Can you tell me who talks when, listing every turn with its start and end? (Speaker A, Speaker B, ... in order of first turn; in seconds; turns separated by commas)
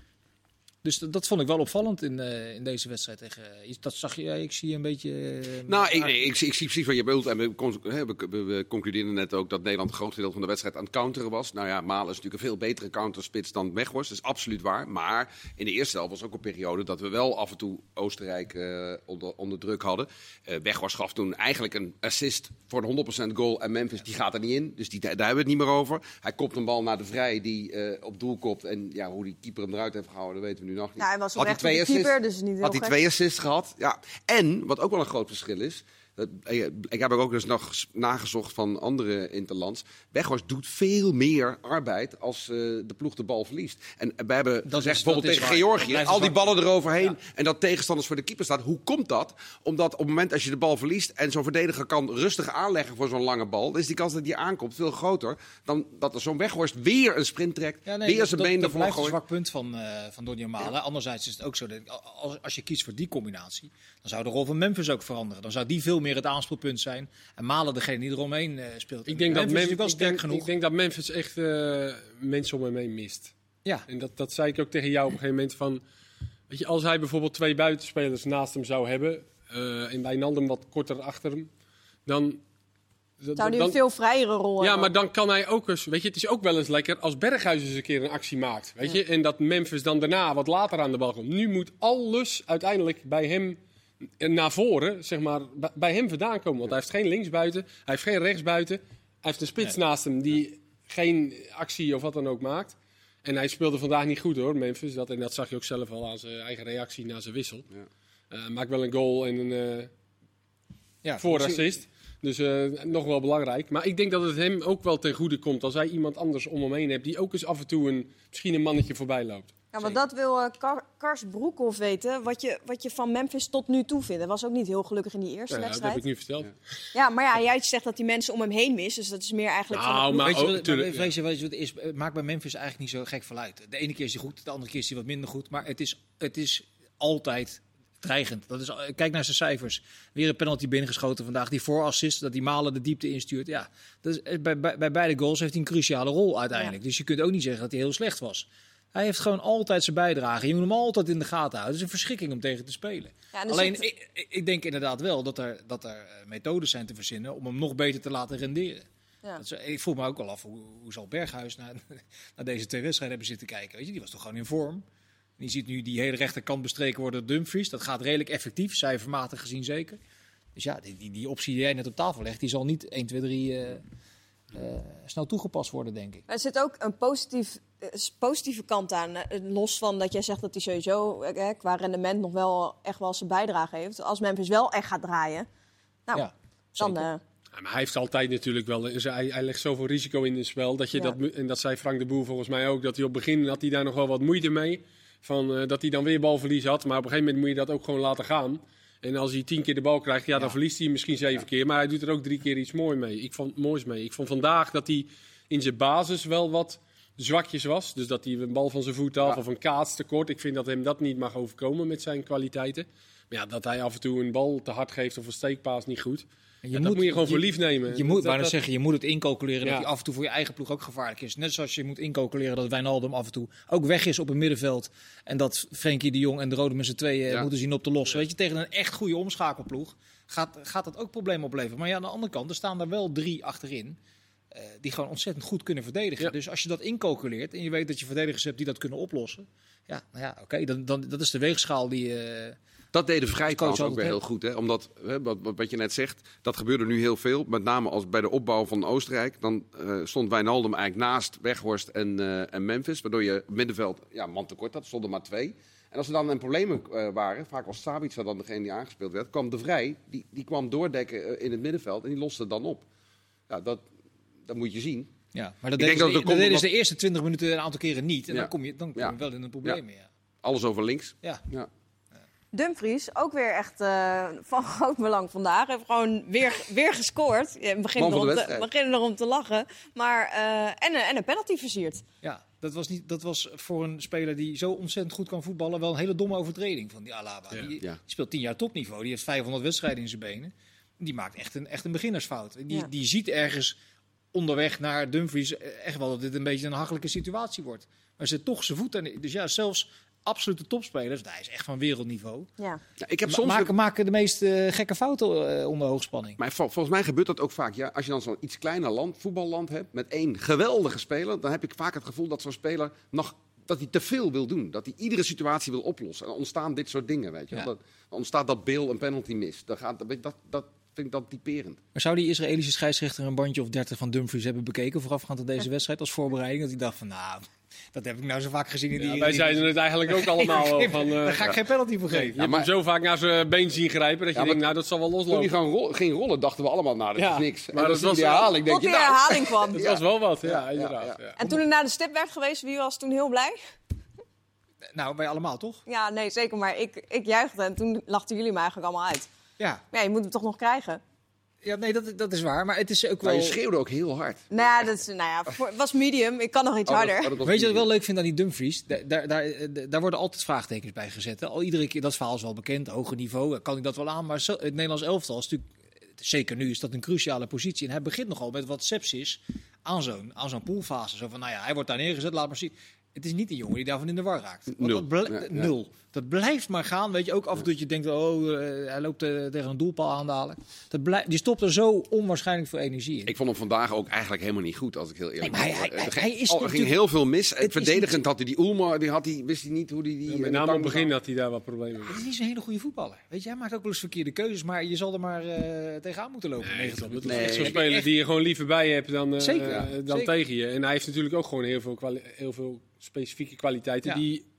Speaker A: 0.8-6.2, Speaker B: 5.7-59.2, Speaker C: 31.0-33.0, Speaker A: 44.7-47.2, Speaker A: 57.9-70.5, Speaker D: 69.1-73.3, Speaker D: 73.9-75.8, Speaker D: 76.5-81.5, Speaker D: 82.1-82.4, Speaker D: 83.2-83.8, Speaker C: 83.4-84.9, Speaker D: 84.6-93.6, Speaker D: 94.2-107.7, Speaker D: 108.3-109.9, Speaker A: 111.0-111.7, Speaker D: 111.2-119.5, Speaker C: 119.7-126.0, Speaker D: 125.5-126.5, Speaker C: 126.9-130.4, Speaker D: 129.7-131.1, Speaker A: 130.2-158.8, Speaker C: 153.3-153.8, Speaker A: 159.4-164.8, Speaker A: 165.4-170.0, Speaker A: 170.6-173.8, Speaker A: 174.5-176.2, Speaker C: 176.3-185.5, Speaker C: 186.1-187.2, Speaker A: 186.1-187.1, Speaker D: 187.5-218.6, Speaker A: 216.6-234.0, Speaker A: 234.5-242.6, Speaker B: 242.9-262.9, Speaker A: 243.5-244.2, Speaker B: 263.5-263.9, Speaker B: 264.4-265.1, Speaker A: 265.3-270.1, Speaker B: 265.8-266.7, Speaker B: 268.3-269.8, Speaker B: 270.4-271.7, Speaker C: 272.5-282.0, Speaker B: 278.0-278.7, Speaker A: 282.2-293.8, Speaker A: 294.3-302.5, Speaker B: 303.0-303.7, Speaker A: 303.3-306.4, Speaker B: 306.4-321.8, Speaker A: 321.9-332.4, Speaker D: 329.0-331.6, Speaker D: 332.1-335.5, Speaker B: 332.4-332.7, Speaker B: 334.4-334.6, Speaker B: 335.3-341.6, Speaker D: 337.2-338.6, Speaker C: 338.3-339.8, Speaker D: 339.7-341.4, Speaker C: 341.4-343.6, Speaker A: 344.9-345.8, Speaker C: 345.9-349.3, Speaker C: 349.9-351.0, Speaker A: 351.6-353.6, Speaker B: 353.2-354.9, Speaker C: 354.5-357.3, Speaker B: 356.9-357.9, Speaker A: 357.4-383.3, Speaker B: 374.7-375.7, Speaker B: 383.2-391.1, Speaker A: 385.4-386.9, Speaker A: 387.6-388.2, Speaker D: 390.3-392.2, Speaker A: 392.1-398.1, Speaker D: 396.6-404.4, Speaker B: 397.2-397.8, Speaker A: 399.4-400.3